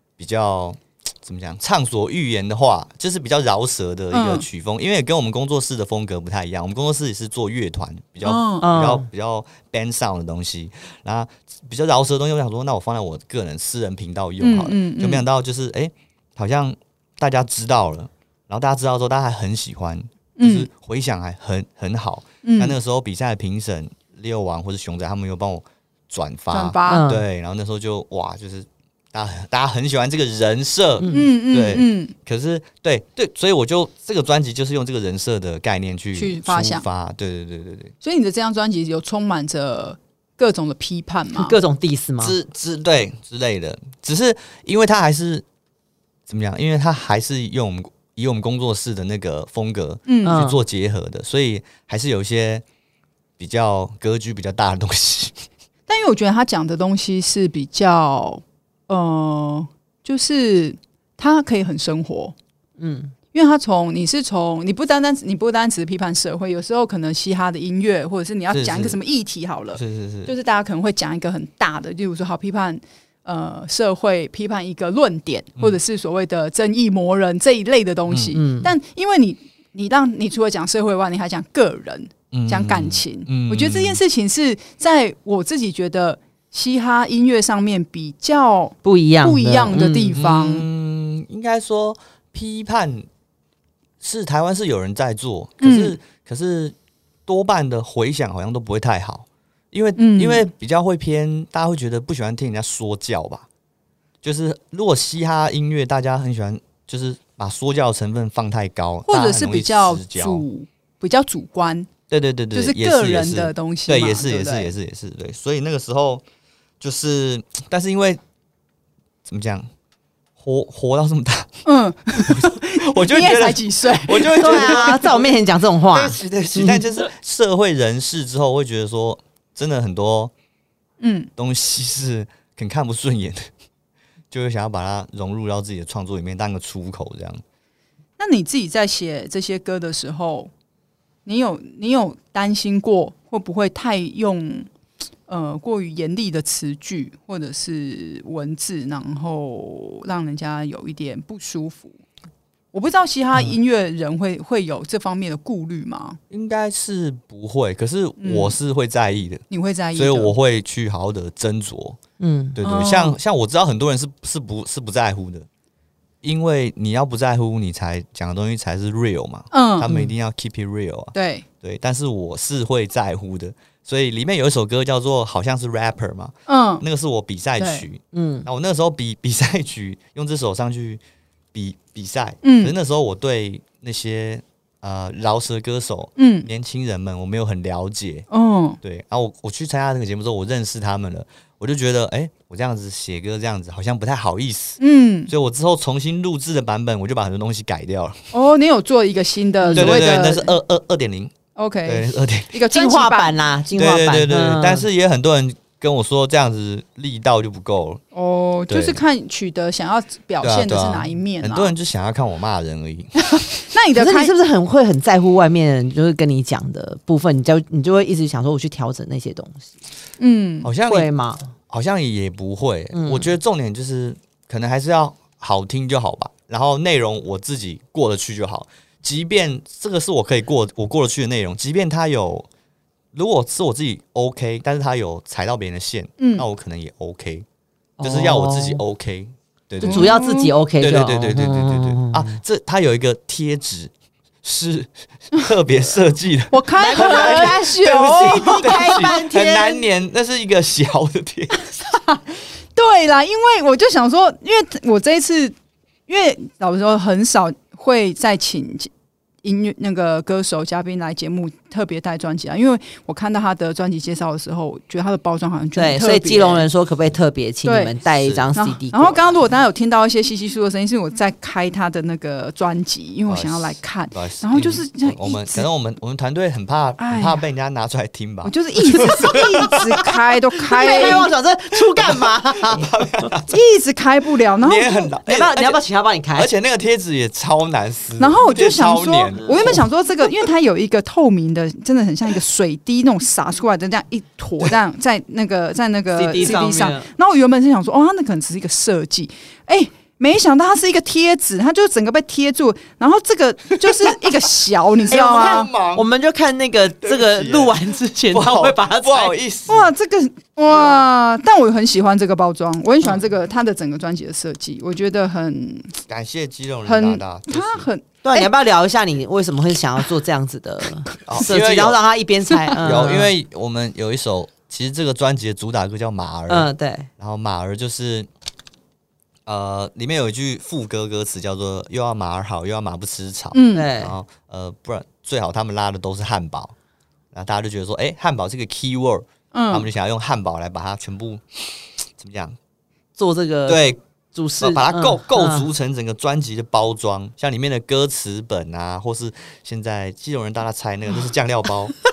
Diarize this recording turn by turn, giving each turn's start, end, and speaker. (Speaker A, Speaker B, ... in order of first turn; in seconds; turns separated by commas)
Speaker A: 0.2-37.9, Speaker B: 4.1-4.4, Speaker B: 8.2-8.7, Speaker C: 8.6-9.1, Speaker B: 14.4-15.2, Speaker B: 20.4-20.7, Speaker B: 22.4-22.7, Speaker B: 26.5-27.0, Speaker C: 26.9-27.2, Speaker C: 31.0-31.3, Speaker B: 31.1-32.1, Speaker B: 36.1-36.9, Speaker B: 38.0-41.6, Speaker C: 41.3-42.4, Speaker A: 42.2-45.4, Speaker A: 46.3-52.6, Speaker B: 50.1-50.4, Speaker C: 50.2-50.6, Speaker A: 53.4-55.4, Speaker B: 55.9-62.3, Speaker C: 62.8-63.1, Speaker B: 63.3-90.7, Speaker A: 68.5-69.0, Speaker A: 69.7-70.3, Speaker A: 78.1-78.4, Speaker C: 78.3-78.7, Speaker A: 82.3-84.0, Speaker C: 88.8-90.2, Speaker A: 90.1-93.1, Speaker A: 94.0-96.7, Speaker B: 95.6-96.0, Speaker A: 97.2-103.5, Speaker B: 100.0-100.4, Speaker A: 104.2-110.5, Speaker B: 109.1-111.9, Speaker A: 112.1-116.2, Speaker B: 112.5-114.7, Speaker A: 116.8-118.2, Speaker A: 119.2-119.7, Speaker A: 120.4-125.3, Speaker B: 121.6-125.1, Speaker C: 124.4-126.8, Speaker A: 125.9-130.3, Speaker B: 131.0-131.3, Speaker A: 131.4-133.5, Speaker A: 134.3-137.4, Speaker B: 138.2-140.5, Speaker B: 141.2-144.7, Speaker B: 145.3-152.0, Speaker B: 152.7-156.2, Speaker A: 156.3-159.4, Speaker B: 158.2-158.6, Speaker B: 159.5-160.3, Speaker A: 159.9-162.0, Speaker C: 162.2-162.6, Speaker A: 162.6-165.5, Speaker B: 162.6-163.2, Speaker A: 166.2-181.0, Speaker B: 169.5-169.9, Speaker C: 169.9-170.1, Speaker B: 171.1-171.4, Speaker B: 176.5-176.8, Speaker B: 177.6-177.8, Speaker C: 178.1-178.5, Speaker A: 181.5-188.3, Speaker B: 182.4-182.7, Speaker B: 186.2-186.5, Speaker B: 188.3-188.8, Speaker A: 188.8-198.2, Speaker B: 194.8-195.3, Speaker B: 198.3-200.6, Speaker C: 199.6-200.1, Speaker A: 199.7-201.3, Speaker B: 201.6-203.3, Speaker A: 201.8-202.5, Speaker C: 202.7-204.8, Speaker A: 203.7-208.0, Speaker B: 208.1-211.7, Speaker A: 208.7-209.0, Speaker A: 210.4-213.1, Speaker B: 213.2-214.3, Speaker C: 213.9-219.7, Speaker B: 220.2-220.7, Speaker A: 220.6-221.1, Speaker C: 220.9-221.5, Speaker A: 221.7-232.5, Speaker C: 222.9-223.3, Speaker A: 233.1-237.4, Speaker B: 236.2-236.4, Speaker C: 238.0-238.8, Speaker A: 238.0-240.2, Speaker C: 239.8-242.4, Speaker B: 239.8-240.5, Speaker A: 240.8-243.9, Speaker A: 244.4-251.6, Speaker B: 246.5-249.2, Speaker C: 246.8-249.8, Speaker B: 251.9-255.5, Speaker B: 256.1-258.9, Speaker B: 259.4-266.6, Speaker C: 265.8-269.3, Speaker B: 267.6-267.9, Speaker A: 268.2-268.5, Speaker B: 268.5-275.7, Speaker A: 273.3-280.1, Speaker B: 277.0-277.4, Speaker B: 278.4-281.3, Speaker C: 280.7-282.9, Speaker A: 280.8-281.3, Speaker A: 281.8-283.6, Speaker B: 283.5-285.1, Speaker A: 284.6-285.8, Speaker C: 285.2-286.5, Speaker A: 286.3-289.9, Speaker B: 288.2-305.7, Speaker C: 296.2-297.1, Speaker A: 303.8-304.1, Speaker A: 305.1-306.1, Speaker C: 305.1-309.4, Speaker A: 307.0-309.9, Speaker B: 309.7-316.0, Speaker A: 310.7-311.0, Speaker A: 316.1-317.9, Speaker B: 316.9-318.5, Speaker C: 318.2-323.3, Speaker A: 321.2-322.0, Speaker B: 322.5-322.8, Speaker A: 322.8-328.3, Speaker C: 326.5-327.1, Speaker A: 329.4-336.7, Speaker B: 333.5-333.9, Speaker C: 333.7-334.1, Speaker A: 337.3-342.6, Speaker B: 339.5-339.9, Speaker C: 343.2-343.8, Speaker A: 343.7-344.0, Speaker C: 344.3-345.7, Speaker A: 344.6-351.9